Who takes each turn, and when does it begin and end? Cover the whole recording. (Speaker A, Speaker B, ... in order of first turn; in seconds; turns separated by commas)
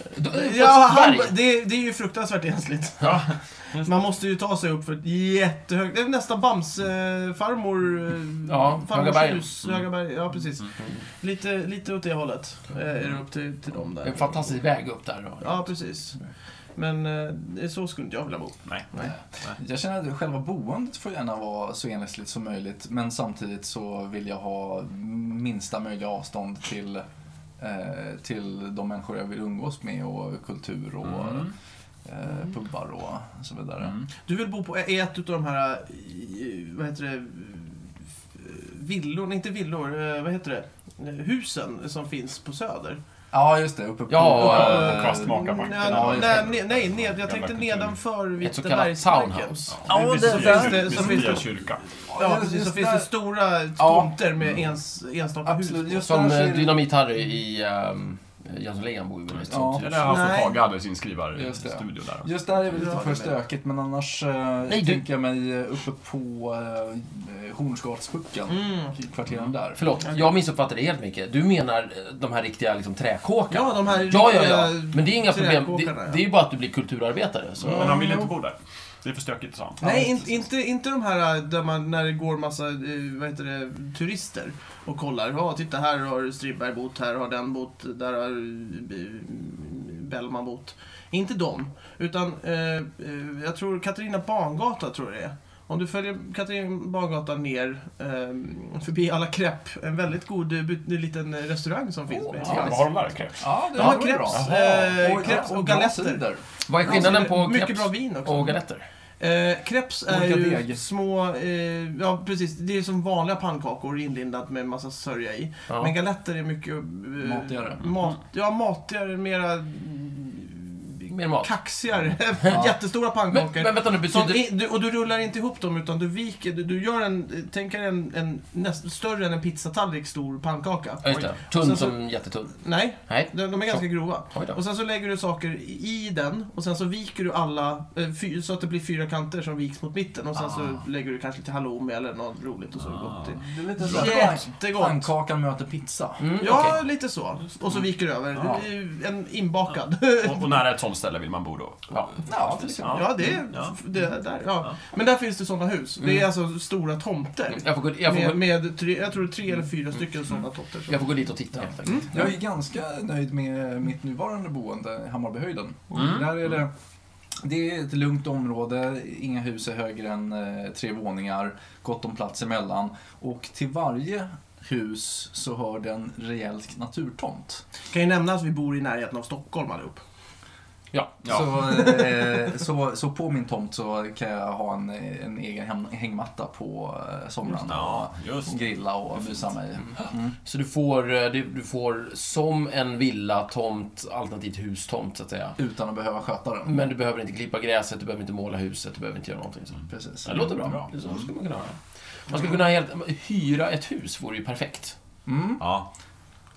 Speaker A: 0.1-1.3, Speaker B: 0.2-14.6, Speaker C: 3.0-3.9, Speaker A: 8.4-9.4, Speaker A: 14.0-15.7, Speaker B: 15.4-16.2, Speaker B: 16.7-19.1, Speaker D: 18.9-27.0, Speaker D: 27.6-31.5, Speaker C: 31.1-31.5, Speaker D: 32.0-34.0, Speaker B: 34.2-43.0, Speaker D: 43.3-46.5, Speaker A: 44.1-45.0, Speaker C: 44.4-48.0, Speaker B: 44.5-51.5, Speaker A: 48.4-49.5, Speaker C: 49.7-51.8, Speaker D: 49.9-51.4, Speaker D: 52.1-53.1, Speaker B: 52.1-56.2, Speaker D: 53.8-54.1, Speaker D: 55.4-56.8, Speaker A: 56.0-60.2, Speaker D: 59.5-60.2, Speaker C: 59.8-62.3, Speaker B: 60.0-60.6, Speaker D: 61.3-69.8, Speaker B: 62.7-63.4, Speaker A: 64.7-65.0, Speaker B: 68.5-68.9, Speaker A: 69.7-78.0, Speaker B: 70.0-70.3, Speaker B: 73.5-76.2, Speaker C: 77.6-79.8, Speaker B: 77.7-78.3, Speaker D: 79.8-80.2, Speaker B: 79.8-102.8, Speaker A: 102.2-102.8, Speaker C: 102.4-105.0, Speaker D: 103.4-106.4, Speaker B: 103.7-106.2, Speaker A: 106.7-108.8, Speaker B: 106.8-108.6, Speaker B: 109.2-132.0, Speaker D: 110.1-110.8, Speaker D: 117.2-117.9, Speaker A: 121.1-121.5, Speaker D: 122.5-122.8, Speaker A: 123.3-124.4, Speaker A: 131.0-134.6, Speaker C: 131.0-131.3, Speaker B: 132.5-145.1, Speaker C: 142.8-143.4, Speaker D: 143.4-146.5, Speaker A: 146.2-146.8, Speaker B: 146.4-150.7, Speaker C: 148.3-148.6, Speaker C: 150.2-152.1, Speaker A: 151.9-152.9, Speaker D: 152.3-153.3, Speaker C: 152.8-153.7, Speaker B: 152.8-161.1, Speaker A: 157.5-158.4, Speaker A: 160.9-162.2, Speaker B: 161.8-162.2, Speaker D: 162.1-166.7, Speaker C: 165.9-166.4, Speaker D: 167.4-177.6, Speaker B: 177.9-180.0, Speaker C: 181.2-181.6, Speaker D: 181.2-190.3, Speaker B: 181.6-182.5, Speaker C: 187.5-189.3, Speaker A: 190.4-195.6, Speaker D: 195.6-196.7, Speaker A: 196.6-204.9, Speaker D: 199.9-200.8, Speaker C: 200.6-201.3, Speaker D: 205.2-205.7, Speaker C: 205.6-205.9